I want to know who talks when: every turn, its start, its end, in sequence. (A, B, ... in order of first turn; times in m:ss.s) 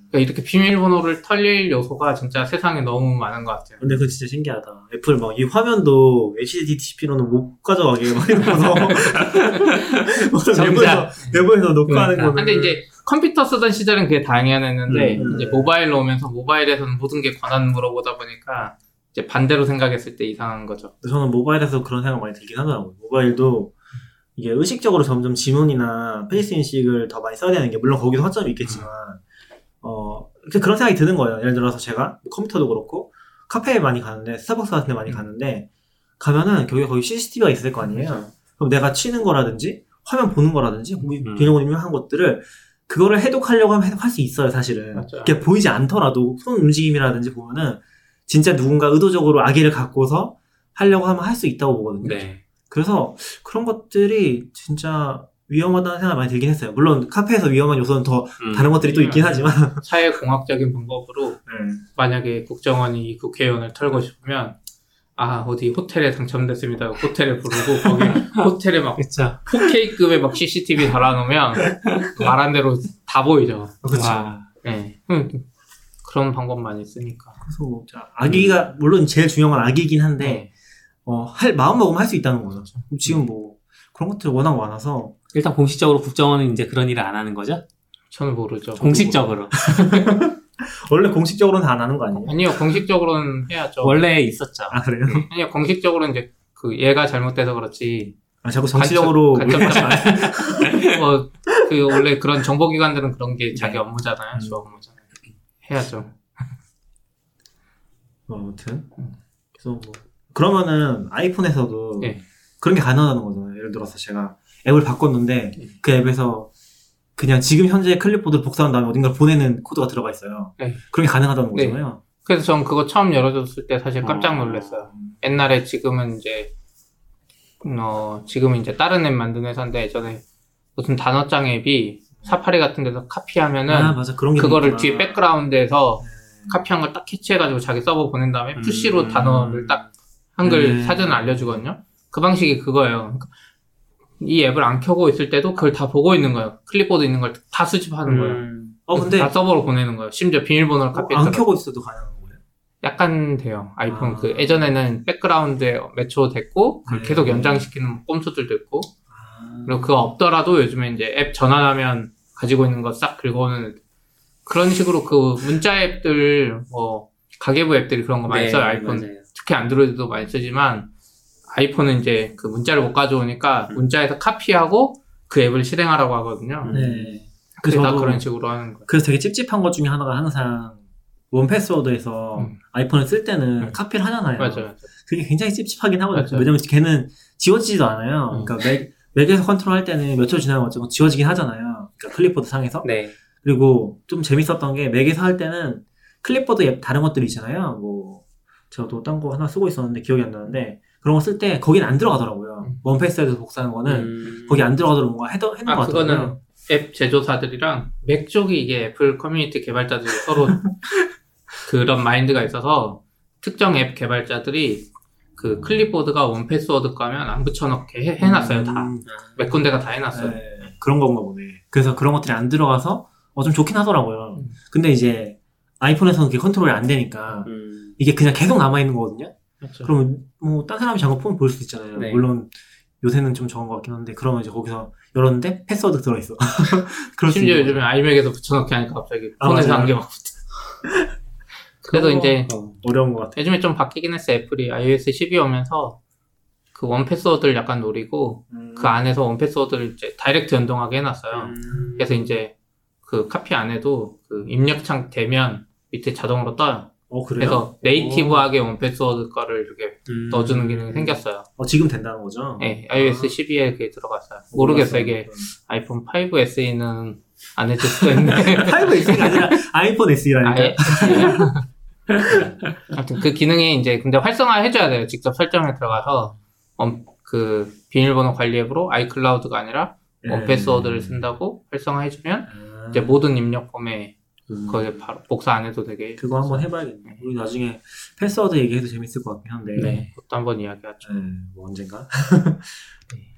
0:00.1-0:03.8 A
0:03.8-0:12.8 B
0:08.9-0:11.3 C
0:11.8-0:12.4 C
0:12.3-0:20.9 A
0:14.9-0:15.4 C
0:15.2-0:15.7 B
0:21.0-0:23.7 B
0:24.4-0:29.2 B
0:29.8-0:35.7 B
0:36.2-0:59.8 B
0:37.9-0:38.3 A
0:41.2-0:41.6 C
0:44.9-0:45.4 A
0:52.0-0:52.4 C
0:58.4-0:58.8 C
0:58.8-1:04.6 A
1:01.5-1:01.8 B
1:05.2-1:15.5 A
1:07.8-1:08.5 C
1:09.0-1:09.5 C
1:13.8-1:14.5 B
1:16.0-1:17.4 A
1:17.4-1:20.4 B
1:18.3-1:18.6 C
1:20.2-1:20.5 A
1:21.1-1:25.2 B
1:25.3-1:27.6 C
1:28.1-1:29.2 A
1:28.8-1:29.6 C
1:28.9-1:32.6 B
1:32.2-1:34.0 A
1:33.8-1:34.8 C
1:34.7-1:35.3 B
1:35.1-1:38.2 A
1:38.4-1:40.8 B
1:38.8-1:45.1 A
1:44.4-1:44.6 B
1:45.6-1:46.2 A
1:48.3-1:56.5 B
1:57.2-2:02.0 B
2:01.5-2:06.5 A
2:04.0-2:04.9 C
2:07.6-2:10.2 A
2:10.8-2:23.3 A
2:13.7-2:15.2 B
2:16.0-2:16.6 B
2:18.6-2:19.9 C
2:20.4-2:21.6 B
2:24.2-2:31.4 A
2:28.1-2:28.8 C
2:28.9-2:29.3 B
2:30.9-2:32.4 B
2:32.8-2:38.9 A
2:33.9-2:34.7 B
2:36.9-2:37.7 B
2:39.1-2:39.9 B
2:39.7-2:43.8 A
2:44.5-2:50.9 A
2:48.3-2:49.2 C
2:51.5-2:57.0 A
2:56.6-2:57.2 C
2:56.7-2:58.3 B
2:57.6-2:58.9 A
2:58.9-3:12.9 B
3:04.4-3:04.9 A
3:06.1-3:06.5 A
3:12.8-3:13.2 C
3:13.4-3:26.4 B
3:23.9-3:24.7 C
3:25.7-3:30.7 A
3:31.6-3:40.4 A
3:38.2-3:39.1 B
3:39.1-3:39.4 C
3:40.1-3:57.8 B
3:47.4-3:48.0 C
3:49.6-3:49.9 A
3:52.0-3:52.2 C
3:57.3-4:00.6 A
3:59.4-4:00.0 B
4:00.9-4:01.1 B
4:01.8-4:02.5 A
4:01.9-4:03.4 B
4:02.5-4:02.8 C
4:03.4-4:06.0 A
4:06.8-4:12.5 A
4:08.5-4:09.0 B
4:11.3-4:12.3 C
4:13.0-4:21.5 A
4:17.1-4:17.7 B
4:17.9-4:18.4 C
4:20.1-4:20.9 C
4:20.9-4:23.4 B
4:22.6-4:29.6 A
4:24.5-4:25.5 B
4:28.4-4:31.5 B
4:30.4-4:31.6 A
4:32.1-4:32.7 C
4:32.9-4:47.2 A
4:40.2-4:41.3 B
4:42.5-4:43.2 B
4:44.5-4:44.9 C
4:46.2-4:50.0 B
4:49.8-4:50.1 C
4:49.8-4:51.1 A
4:51.0-4:52.9 B